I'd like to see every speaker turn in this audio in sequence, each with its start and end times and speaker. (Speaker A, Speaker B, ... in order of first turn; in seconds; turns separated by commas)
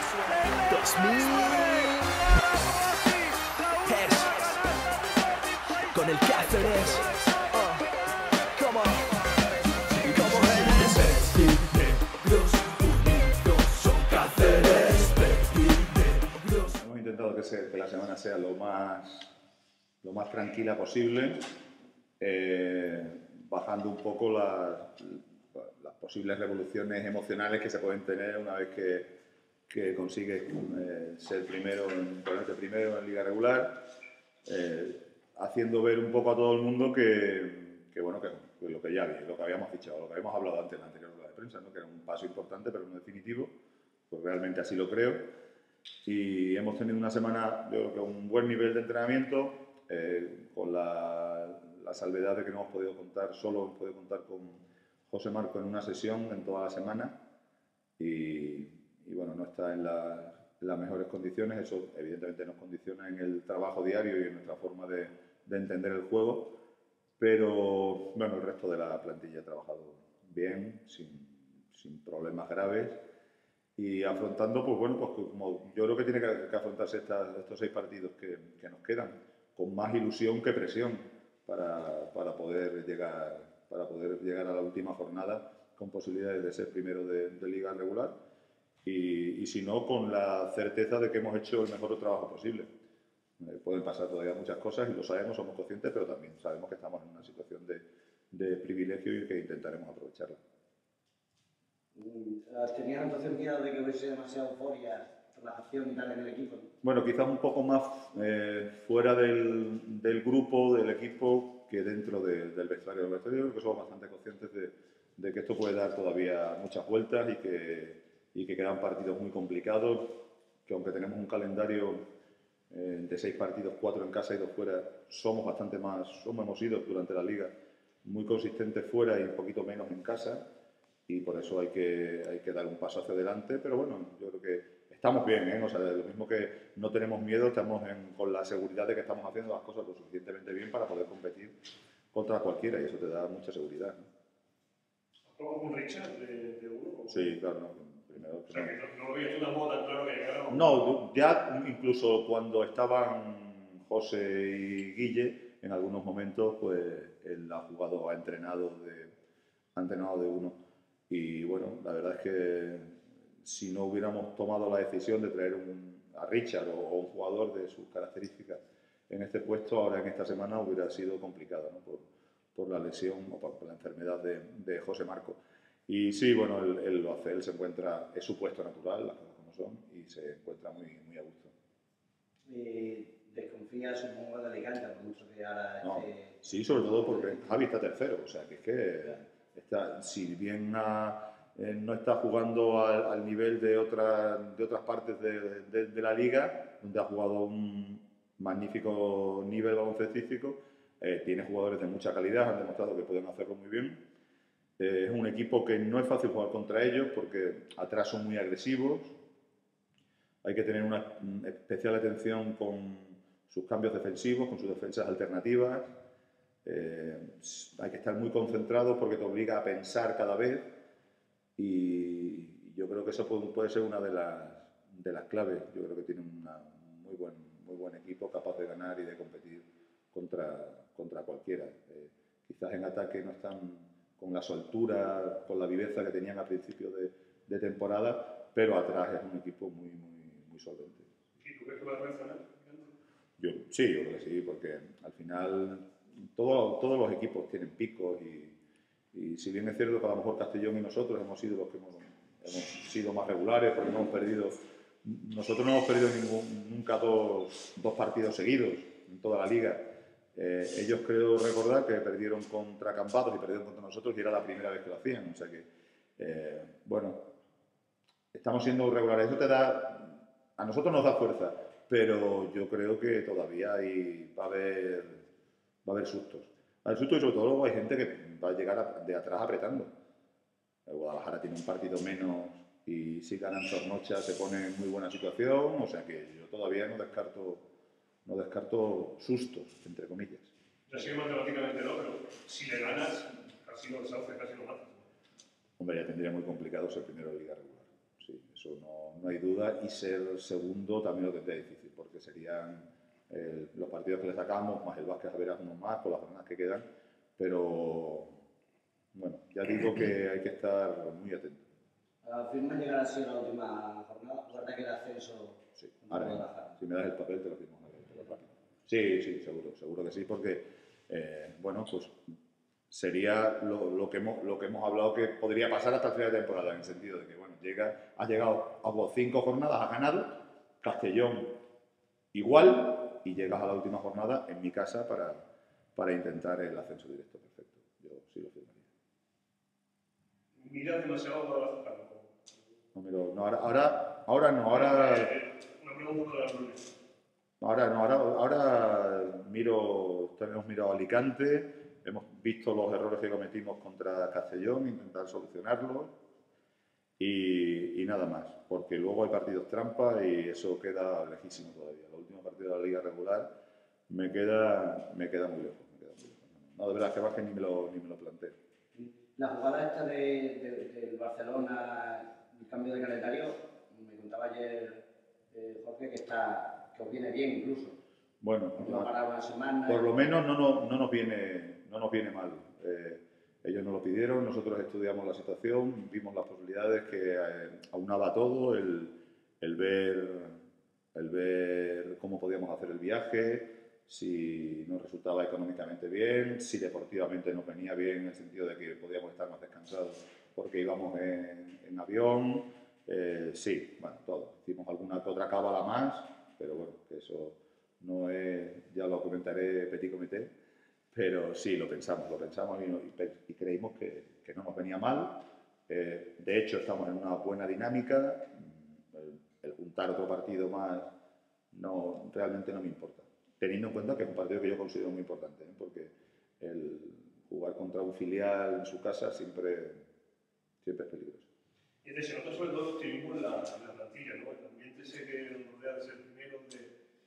Speaker A: 0.7-2.0, Speaker A: 3.8-4.6, Speaker A: 5.9-7.8, Speaker A: 8.6-9.1, Speaker A: 10.0-16.7, Speaker B: 16.8-19.3, Speaker B: 20.0-21.4, Speaker B: 22.2-29.1, Speaker B: 29.7-33.9, Speaker B: 34.4-43.5, Speaker B: 44.1-45.2, Speaker B: 46.0-57.1, Speaker B: 58.0-66.6, Speaker B: 67.2-73.0, Speaker B: 73.8-88.1, Speaker B: 88.8-92.7, Speaker B: 93.4-100.4, Speaker C: 101.9-106.7, Speaker B: 106.8-122.0, Speaker B: 122.7-127.5, Speaker B: 128.0-130.4, Speaker B: 131.1-141.5, Speaker B: 142.1-144.0, Speaker D: 145.3-147.3, Speaker B: 147.1-148.8, Speaker D: 148.5-150.7, Speaker B: 150.5-159.1, Speaker B: 159.7-160.6, Speaker B: 161.1-181.5, Speaker C: 182.5-187.4, Speaker B: 185.8-204.0, Speaker B: 204.8-209.2, Speaker B: 210.4-215.9, Speaker B: 216.6-220.8, Speaker B: 221.6-241.1, Speaker D: 241.4-242.9, Speaker B: 243.4-248.6, Speaker B: 249.1-267.3, Speaker B: 268.3-275.2, Speaker B: 275.8-279.9, Speaker B: 280.9-287.6, Speaker B: 288.2-290.5, Speaker D: 290.9-295.0, Speaker B: 295.8-306.9, Speaker B: 307.4-308.4, Speaker B: 309.1-311.7, Speaker C: 312.2-316.7, Speaker B: 315.8-322.2, Speaker B: 322.9-331.6, Speaker B: 332.3-335.4, Speaker B: 335.9-338.9, Speaker D: 340.6-342.3, Speaker B: 342.9-345.3, Speaker D: 344.7-346.9, Speaker B: 347.6-356.1, Speaker B: 357.2-363.5, Speaker B: 364.1-368.6, Speaker C: 368.9-378.0, Speaker B: 378.4-379.1, Speaker C: 378.8-380.1, Speaker B: 379.9-390.6, Speaker B: 391.1-410.5, Speaker B: 411.1-421.1, Speaker B: 421.7-430.0, Speaker B: 430.8-431.5, Speaker D: 432.0-436.9